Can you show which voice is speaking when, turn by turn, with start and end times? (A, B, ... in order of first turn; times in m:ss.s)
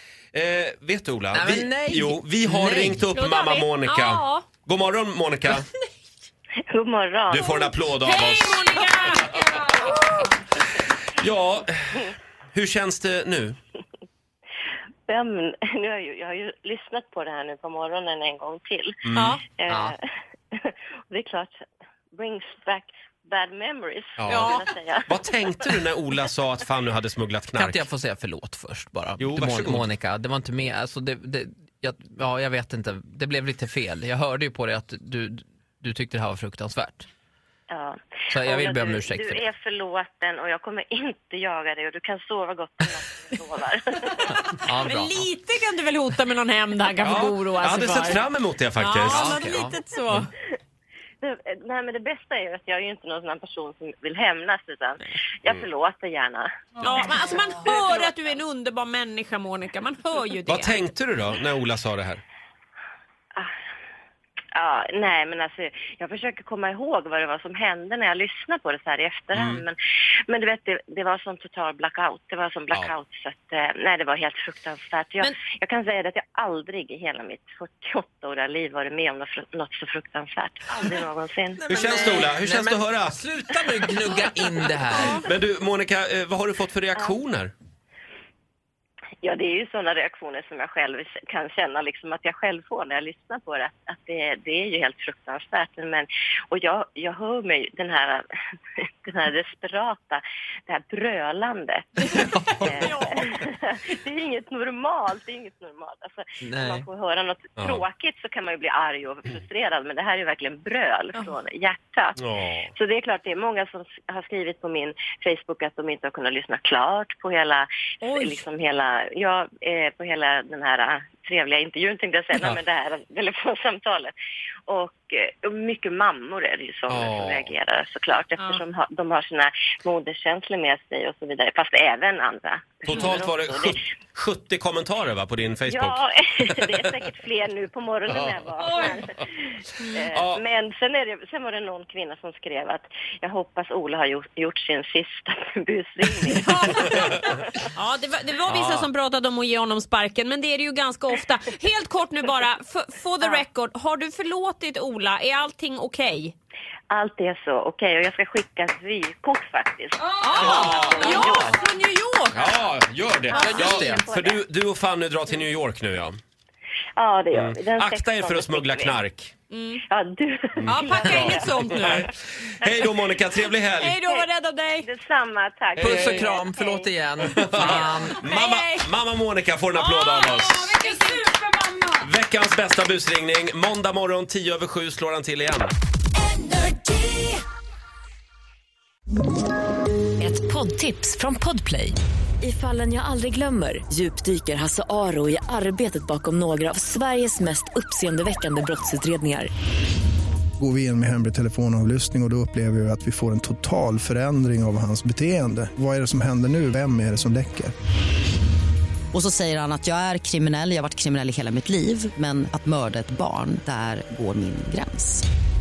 0:00.3-0:05.7 A
0:01.3-0:03.1 B
0:03.1-0:04.5 C
0:06.7-0:07.8 D
0:07.3-0:08.7 A
0:08.0-0:10.3 C
0:11.1-0:13.6 A
0:15.1-0:21.5 D
0:19.0-0:19.4 A
0:19.2-0:19.4 C
0:19.7-0:20.0 B
0:22.1-0:25.1 D
0:24.2-0:27.8 A
0:24.3-0:24.6 C
0:27.6-0:37.1 B
0:29.2-0:29.8 A
0:37.7-0:44.5 D
0:38.3-0:39.4 B
0:44.5-0:45.3 B
0:44.8-0:48.2 C
0:47.0-0:49.4 A
0:48.8-0:50.3 C
0:49.1-0:50.3 B
0:51.2-0:58.4 D
0:56.8-1:00.8 C
1:00.5-1:02.2 A
1:04.5-1:09.8 D
1:09.3-1:09.6 A
1:10.3-1:22.3 D
1:21.6-1:25.2 B
1:21.7-1:23.2 A
1:24.9-1:25.2 C
1:25.2-1:27.5 A
1:29.2-1:38.2 D
1:39.0-1:52.2 D
1:42.8-1:43.3 C
1:46.4-1:46.9 B
1:47.6-1:47.8 A
1:52.2-1:52.7 A
1:52.7-2:04.1 D
1:58.0-1:58.4 C
2:04.7-2:13.8 D
2:06.9-2:07.5 A
2:12.8-2:16.0 A
2:15.7-2:27.4 D
2:18.1-2:18.5 A
2:18.6-2:19.0 C
2:19.8-2:20.0 C
2:20.1-2:20.4 A
2:26.4-2:36.4 C
2:28.5-2:28.9 A
2:36.9-2:41.6 D
2:40.2-2:42.5 C
2:40.4-2:41.5 A
2:40.4-2:40.8 B
2:42.3-2:46.2 A
2:43.3-2:44.1 B
2:43.3-2:43.9 C
2:43.4-2:44.4 D
2:47.0-2:49.0 D
2:47.3-2:49.3 A
2:49.5-2:49.8 C
2:49.9-2:51.9 D
2:50.6-2:54.0 A
2:50.7-2:52.1 C
2:53.8-2:54.9 C
2:54.8-2:56.9 D
2:55.8-2:56.3 A
2:55.8-2:58.2 B
2:57.2-3:00.8 A
2:57.6-2:58.9 C
2:59.8-3:02.0 C
3:02.0-3:05.7 A
3:06.5-3:07.3 E
3:10.2-3:19.5 E
3:20.6-3:27.7 F
3:29.1-3:35.2 G